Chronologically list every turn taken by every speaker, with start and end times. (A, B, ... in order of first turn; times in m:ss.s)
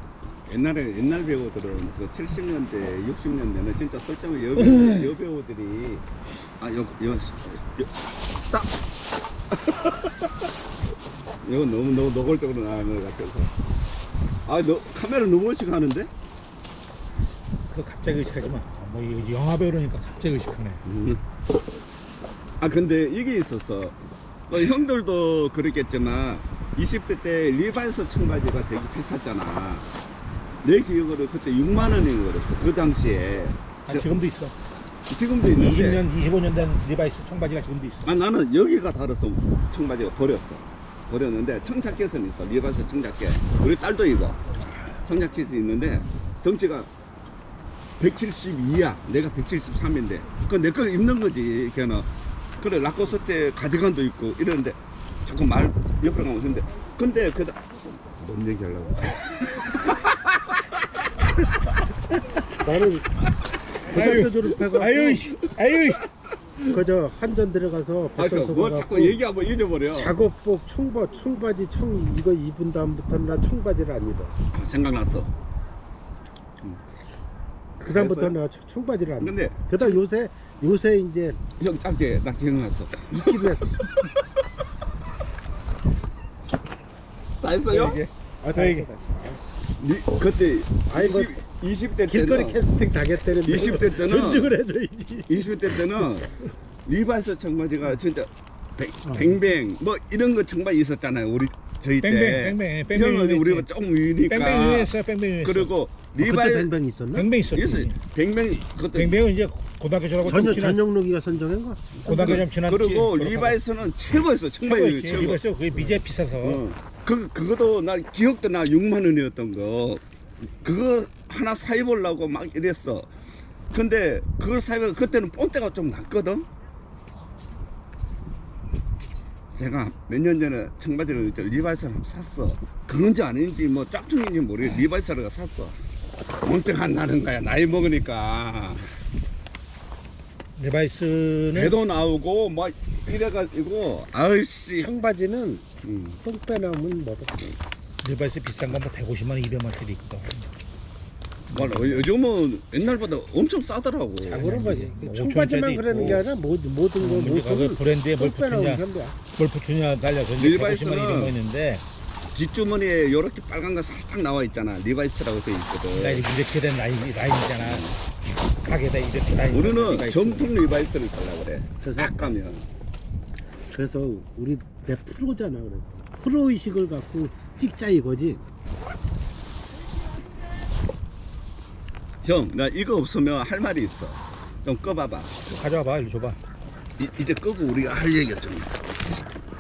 0:00.5-0:06.0 A
0:04.6-0:05.1 B
0:06.6-0:08.7 A
0:09.7-0:10.1 A
0:11.4-0:13.5 A
0:14.5-0:16.1 A
0:17.7-0:20.8 B
0:20.8-0:21.2 A
0:22.6-0:24.0 A
0:24.5-0:29.9 A
0:30.6-0:34.1 A
0:33.9-0:34.5 B
0:35.1-0:36.0 A
0:35.5-0:38.1 B
0:38.0-0:44.4 A
0:45.0-0:46.9 A
0:48.0-0:52.1 A
0:52.6-1:00.0 A
1:02.6-1:03.1 C
1:03.9-1:05.3 C
1:03.9-1:06.0 B
1:06.6-1:09.2 C
1:08.2-1:10.2 A
1:09.9-1:14.4 C
1:14.5-1:15.3 A
1:17.8-1:18.4 A
1:17.8-1:21.4 C
1:19.2-1:19.9 A
1:21.6-1:24.1 A
1:23.1-1:23.9 C
1:27.4-1:28.0 A
1:27.7-1:28.9 B
1:28.4-1:29.4 C
1:29.8-1:32.6 A
1:30.9-1:31.3 C
1:32.1-1:35.8 C
1:33.4-1:34.6 A
1:35.3-1:36.3 A
1:36.8-1:46.7 A
1:39.1-1:39.3 C
1:42.0-1:43.7 B
1:44.3-1:45.7 B
1:46.2-1:47.3 C
1:47.2-1:48.0 B
1:47.5-1:49.2 A
1:48.8-1:50.8 B
1:50.2-1:52.4 C
1:52.0-1:53.6 B
1:52.0-1:55.4 A
1:54.6-1:56.6 B
1:56.4-2:00.0 A
2:00.6-2:03.1 A
2:03.7-2:06.5 A
2:09.6-2:15.8 A
2:16.4-2:18.9 A
2:20.6-2:21.8 B
2:21.5-2:24.9 A
2:24.8-2:25.6 C
2:25.8-2:26.2 A
2:26.2-2:27.4 C
2:28.0-2:30.5 B
2:31.5-2:32.1 B
2:31.5-2:34.4 A
2:34.2-2:39.2 C
2:34.4-2:36.2 B
2:37.0-2:38.8 B
2:39.4-2:41.8 B
2:40.4-2:41.4 A
2:42.3-2:46.3 A
2:45.9-2:47.9 B
2:47.6-2:48.0 A
2:48.6-2:50.5 B
2:49.5-2:52.6 A
2:51.8-2:52.4 C
2:53.7-2:58.4 C
3:02.2-3:05.3 A
3:05.5-3:06.4 B
3:07.0-3:09.0 A